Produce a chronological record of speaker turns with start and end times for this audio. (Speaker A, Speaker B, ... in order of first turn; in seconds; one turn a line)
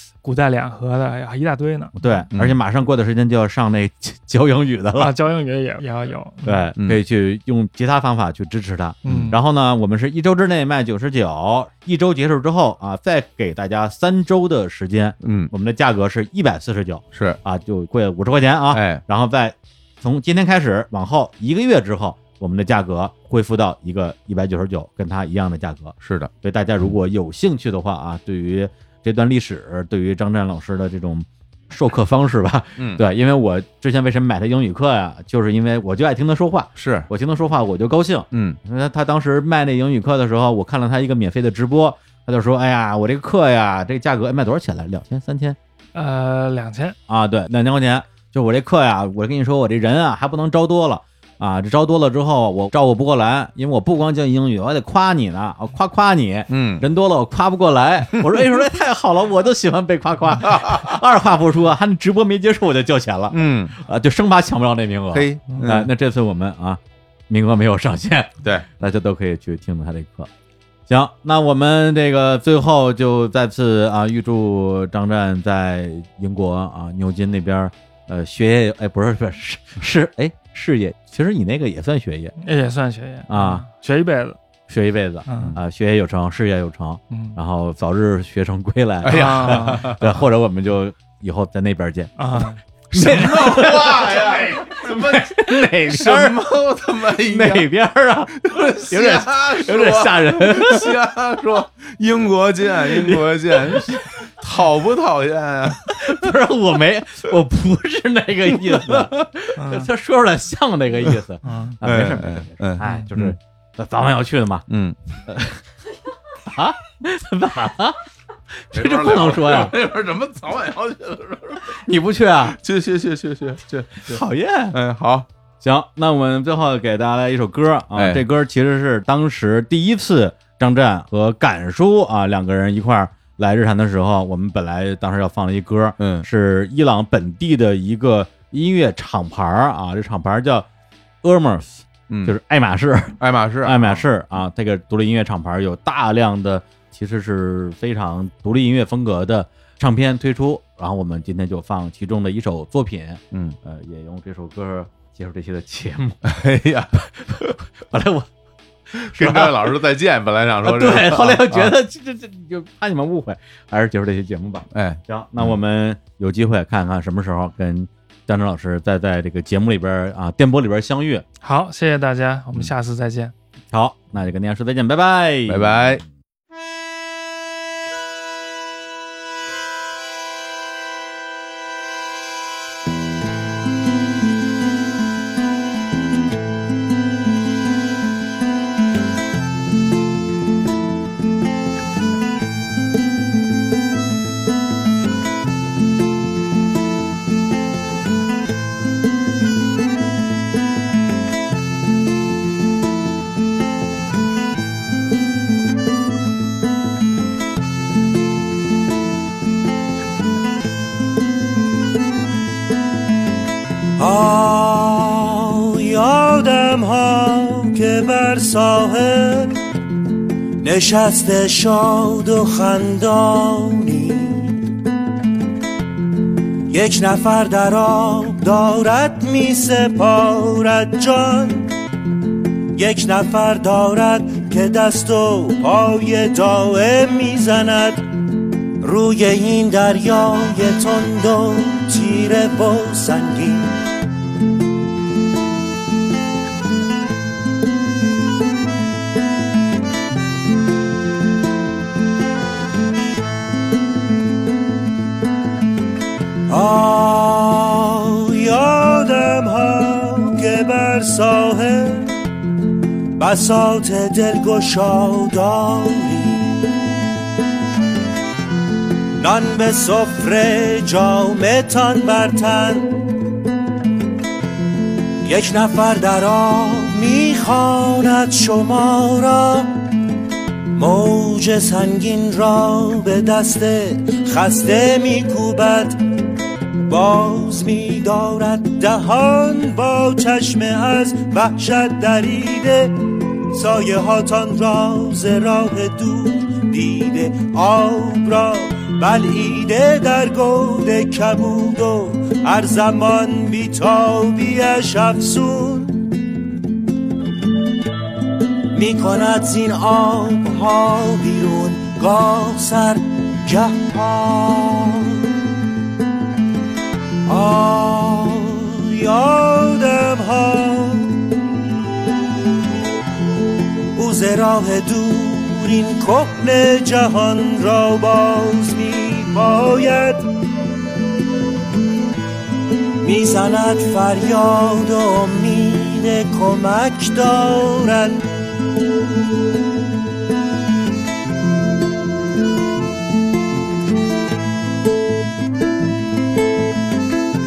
Speaker A: 0.2-2.3
Speaker B: 1.9-5.1
Speaker C: 2.3-2.6
Speaker A: 5.0-6.7
Speaker B: 6.4-45.6
Speaker C: 9.1-9.3
Speaker A: 9.1-9.4
Speaker C: 15.2-15.5
Speaker C: 17.1-17.4
Speaker C: 18.7-19.0
Speaker C: 26.0-26.3
Speaker C: 32.8-33.0
Speaker C: 36.8-37.1
Speaker C: 38.3-38.6
Speaker A: 45.9-47.0
Speaker B: 47.1-70.3
Speaker C: 56.5-56.9
Speaker C: 58.2-58.5
Speaker C: 60.5-60.9
Speaker C: 63.3-63.8
Speaker C: 65.1-65.9
Speaker B: 70.9-82.4
Speaker A: 82.4-84.4
Speaker B: 83.3-83.7
Speaker B: 84.7-96.4
Speaker A: 85.3-85.6
Speaker A: 87.1-87.4
Speaker C: 89.0-90.1
Speaker A: 89.1-90.0
Speaker A: 92.2-92.6
Speaker C: 92.9-97.7
Speaker B: 97.1-100.9
Speaker C: 98.4-106.3
Speaker B: 102.7-104.0
Speaker B: 105.8-114.7
Speaker C: 108.6-109.3
Speaker A: 109.6-109.9
Speaker A: 111.4-111.8
Speaker C: 111.8-113.4
Speaker C: 114.7-115.0
Speaker B: 115.3-115.7
Speaker B: 116.3-118.0
Speaker B: 118.5-119.8
Speaker C: 118.7-121.8
Speaker B: 121.7-122.6
Speaker C: 122.5-125.3
Speaker B: 124.1-124.8
Speaker B: 125.6-140.7
Speaker C: 128.0-128.2
Speaker C: 136.0-136.3
Speaker B: 141.2-156.3
Speaker C: 142.1-142.4
Speaker C: 143.2-144.1
Speaker C: 156.2-157.0
Speaker B: 156.9-158.3
Speaker B: 158.9-159.8
Speaker C: 159.0-161.7
Speaker B: 160.6-171.2
Speaker C: 164.7-165.6
Speaker A: 171.4-173.3
Speaker B: 173.7-176.0
Speaker C: 175.5-176.0
Speaker D: 214.0-219.7
Speaker D: 220.6-224.7
Speaker D: 226.7-231.7
Speaker D: 232.7-243.8
Speaker D: 256.5-262.3
Speaker D: 263.2-266.8
Speaker D: 269.2-273.0
Speaker D: 275.2-279.8
Speaker D: 280.8-306.2
Speaker D: 308.7-315.5
Speaker D: 317.3-321.4
Speaker D: 323.9-330.3
Speaker D: 333.0-338.2